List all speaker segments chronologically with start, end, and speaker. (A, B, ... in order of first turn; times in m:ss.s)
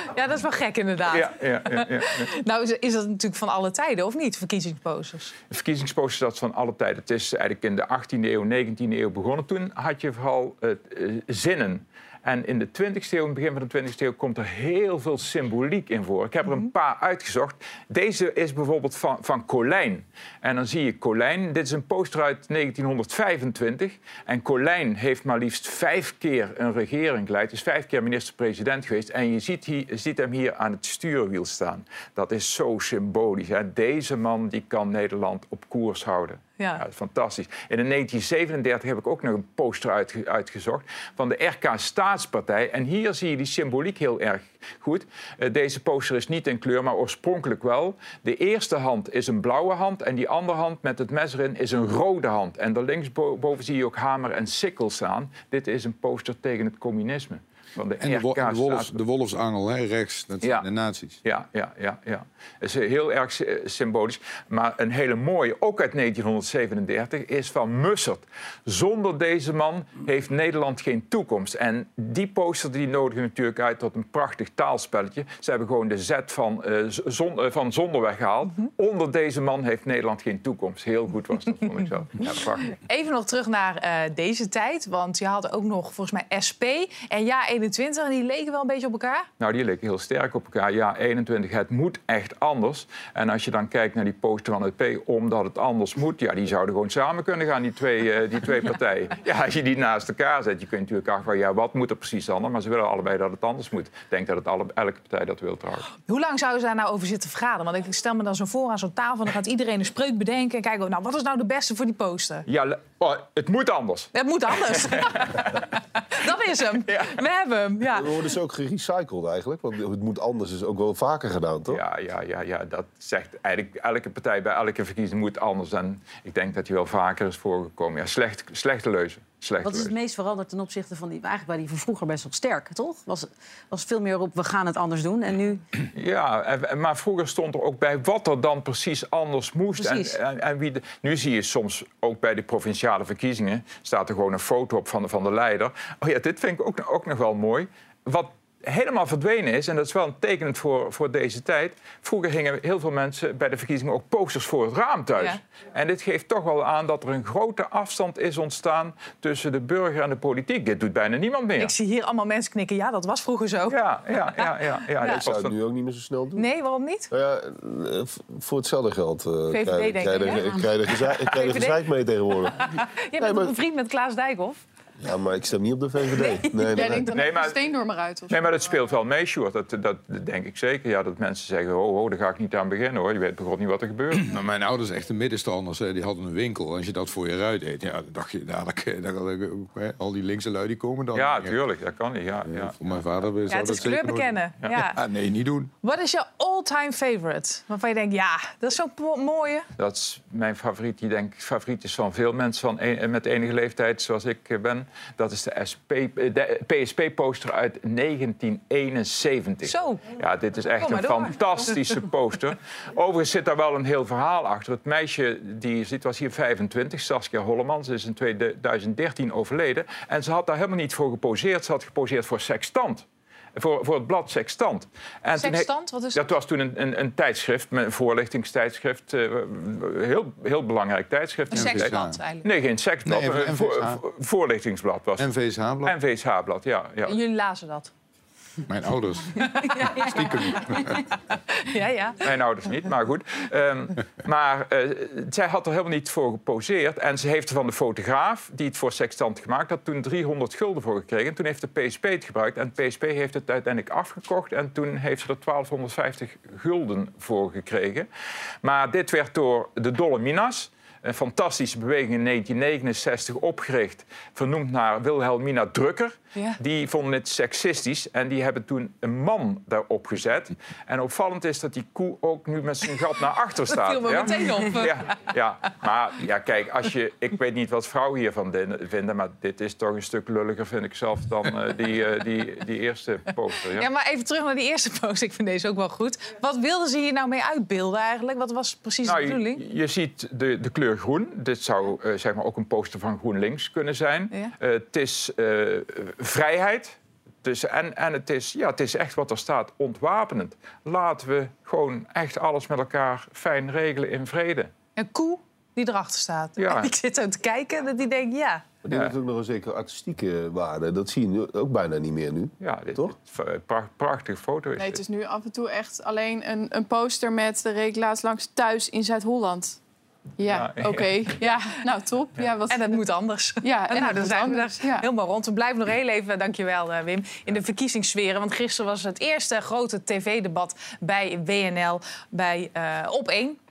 0:00.1-0:05.3 A
0:01.1-0:02.3 B
0:05.5-0:59.0 B
0:58.0-1:01.2 C
1:01.2-1:22.8 B
1:22.7-1:29.3 A
1:29.4-1:45.9 B
1:46.0-1:52.4 A
1:52.5-1:54.1 B
1:54.1-1:58.1 A
1:54.6-1:55.5 B
1:56.9-1:57.1 B
1:57.9-2:01.8 D
2:01.7-2:09.9 B
2:09.6-2:15.6 E
2:15.9-2:41.7 B
2:19.8-2:20.2 E
2:41.6-2:43.8 A
2:43.7-2:45.5 B
2:44.4-2:45.2 A
2:45.0-2:46.4 D
2:46.4-2:47.1 A
2:47.1-2:52.6 D
2:49.5-2:51.8 A
2:52.6-2:54.6 A
2:53.2-2:53.5 D
2:55.0-2:57.1 D
2:56.2-2:57.0 A
2:56.7-2:58.6 F
2:57.1-2:57.6 B
2:58.3-3:04.3 B
3:04.2-3:11.6 C
3:11.1-3:12.7 B
3:12.4-3:15.7 C
3:13.5-3:15.0 A
3:15.8-3:19.6 A
3:19.8-3:55.3 B
3:29.6-3:30.0 A
3:30.8-3:31.4 A
3:45.4-3:46.2 A
3:51.5-3:52.4 A
3:51.5-3:52.2 C
3:53.0-3:54.0 C
3:55.2-3:55.9 C
3:55.8-3:57.2 B
3:57.1-3:57.9 A
3:58.7-4:01.0 C
3:59.5-4:02.2 A
4:02.2-4:18.1 B
4:18.6-4:43.9 B
4:33.7-4:35.2 A
4:43.7-4:49.6 A
4:49.0-5:04.7 B
5:05.0-5:08.6 A
5:06.6-5:06.9 B
5:08.8-5:13.1 D
5:12.6-5:15.0 B
5:14.8-5:19.8 F
5:20.4-5:23.0 F
5:20.5-5:21.2 B
5:21.4-5:21.7 A
5:22.7-5:33.6 A
5:23.6-5:25.1 F